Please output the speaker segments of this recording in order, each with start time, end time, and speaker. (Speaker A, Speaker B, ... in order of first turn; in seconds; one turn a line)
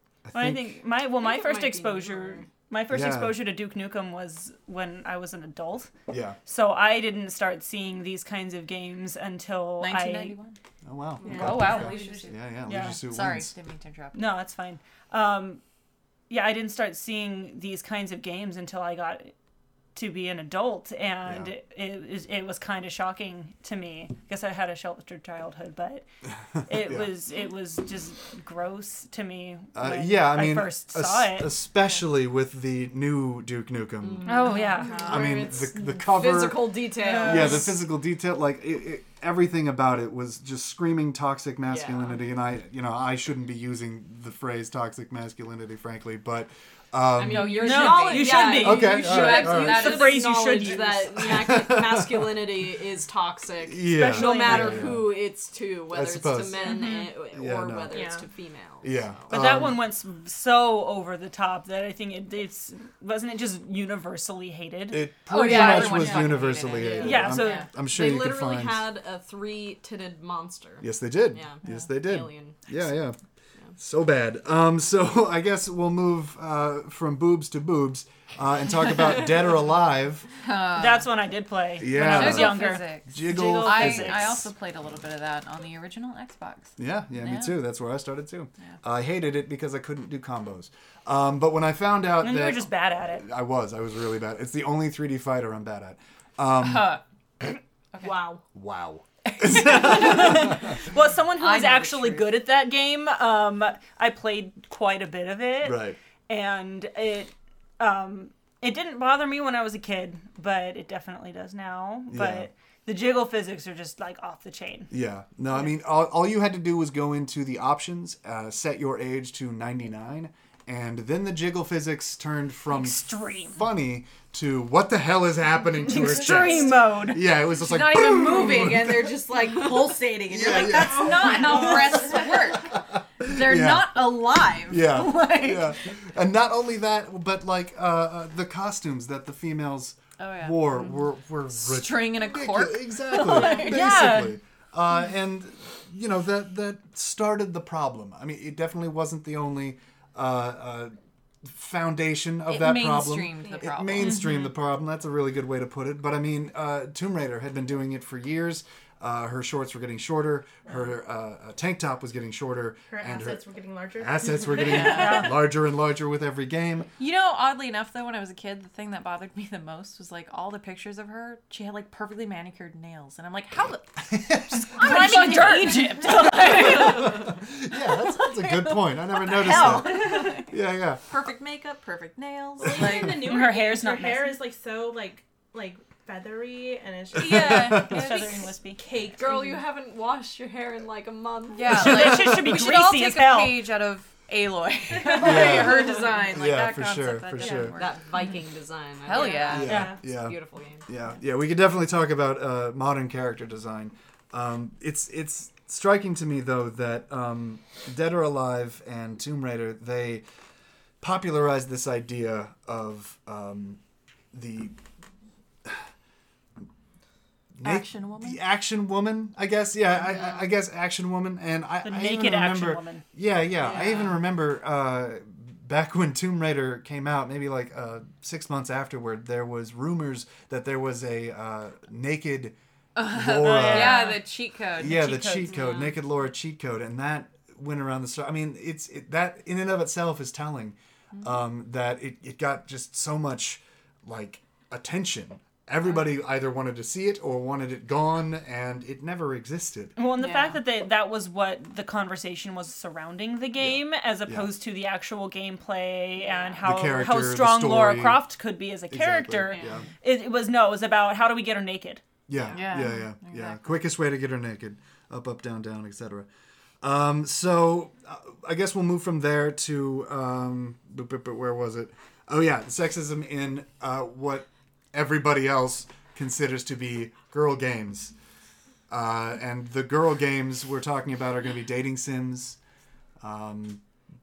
Speaker A: 0.2-0.8
Speaker B: 0.3-5.9
Speaker C: 1.2-2.5
Speaker A: 2.9-3.4
Speaker A: 6.1-6.4
Speaker B: 6.5-10.4
Speaker D: 9.8-10.6
Speaker A: 10.8-13.5
Speaker E: 11.2-12.3
Speaker D: 11.2-14.2
Speaker B: 12.7-13.0
Speaker B: 14.1-15.6
Speaker B: 16.3-19.3
Speaker B: 19.9-26.1
Speaker A: 21.2-21.5
Speaker B: 26.7-31.5
Speaker A: 26.7-27.1
Speaker A: 29.7-34.3
Speaker C: 34.0-37.7
Speaker B: 34.2-35.1
Speaker D: 34.4-35.2
Speaker E: 34.8-35.1
Speaker A: 35.0-47.6
Speaker B: 37.1-37.6
Speaker C: 41.7-42.2
Speaker C: 47.2-59.3
Speaker D: 47.3-50.9
Speaker B: 47.6-51.3
Speaker A: 48.5-50.0
Speaker A: 51.2-52.4
Speaker A: 53.6-55.2
Speaker B: 53.9-54.9
Speaker A: 55.9-56.8
Speaker D: 56.7-57.1
Speaker A: 57.3-58.1
Speaker E: 57.9-58.2
Speaker A: 58.8-59.8
Speaker B: 59.3-66.0
Speaker A: 64.9-68.9
Speaker D: 65.3-67.7
Speaker E: 66.0-66.3
Speaker C: 66.8-67.2
Speaker B: 67.0-67.7
Speaker C: 67.8-72.7
Speaker A: 70.8-73.2
Speaker A: 73.8-80.3
Speaker D: 80.4-81.1
Speaker B: 80.7-84.4
Speaker A: 81.8-84.4
Speaker D: 81.8-87.6
Speaker A: 86.8-97.0
Speaker B: 92.2-93.2
Speaker D: 96.6-97.0
Speaker D: 97.9-98.2
Speaker E: 98.0-98.4
Speaker A: 98.5-100.6
Speaker D: 99.3-100.7
Speaker B: 99.6-114.9
Speaker D: 101.3-102.4
Speaker A: 105.6-106.0
Speaker A: 112.1-112.5
Speaker A: 114.9-129.2
Speaker B: 122.7-123.6
Speaker B: 125.9-127.3
Speaker D: 127.5-135.8
Speaker A: 130.3-163.4
Speaker E: 130.7-132.3
Speaker D: 140.2-140.9
Speaker D: 141.5-144.0
Speaker B: 143.4-144.3
Speaker D: 152.5-154.2
Speaker E: 162.9-165.1
Speaker A: 164.0-166.9
Speaker D: 164.7-165.3
Speaker B: 164.8-165.3
Speaker D: 167.0-180.5
Speaker A: 174.1-175.1
Speaker B: 174.7-176.3
Speaker A: 176.4-181.0
Speaker D: 181.1-183.6
Speaker E: 182.6-189.6
Speaker A: 182.6-183.0
Speaker B: 183.2-184.3
Speaker A: 187.1-188.0
Speaker D: 187.2-188.5
Speaker B: 187.7-188.8
Speaker C: 189.2-192.0
Speaker D: 191.5-197.9
Speaker B: 191.7-193.6
Speaker E: 195.0-195.6
Speaker A: 195.1-197.8
Speaker E: 197.4-197.8
Speaker C: 197.8-200.8
Speaker D: 199.0-199.8
Speaker E: 199.1-200.0
Speaker A: 199.5-210.2
Speaker B: 199.7-200.0
Speaker A: 211.0-213.8
Speaker A: 214.3-214.8
Speaker A: 217.6-232.5
Speaker D: 217.6-218.4
Speaker B: 221.8-223.0
Speaker C: 223.6-224.1
Speaker D: 232.9-235.9
Speaker A: 233.1-234.2
Speaker B: 233.4-234.2
Speaker A: 234.8-249.9
Speaker B: 234.9-235.6
Speaker B: 250.0-262.0
Speaker D: 250.2-250.6
Speaker A: 253.6-254.5
Speaker A: 256.6-258.2
Speaker A: 258.9-259.9
Speaker C: 259.5-259.8
Speaker A: 262.3-266.3
Speaker D: 262.5-263.8
Speaker A: 266.8-278.1
Speaker A: 278.9-282.6
Speaker A: 283.2-283.8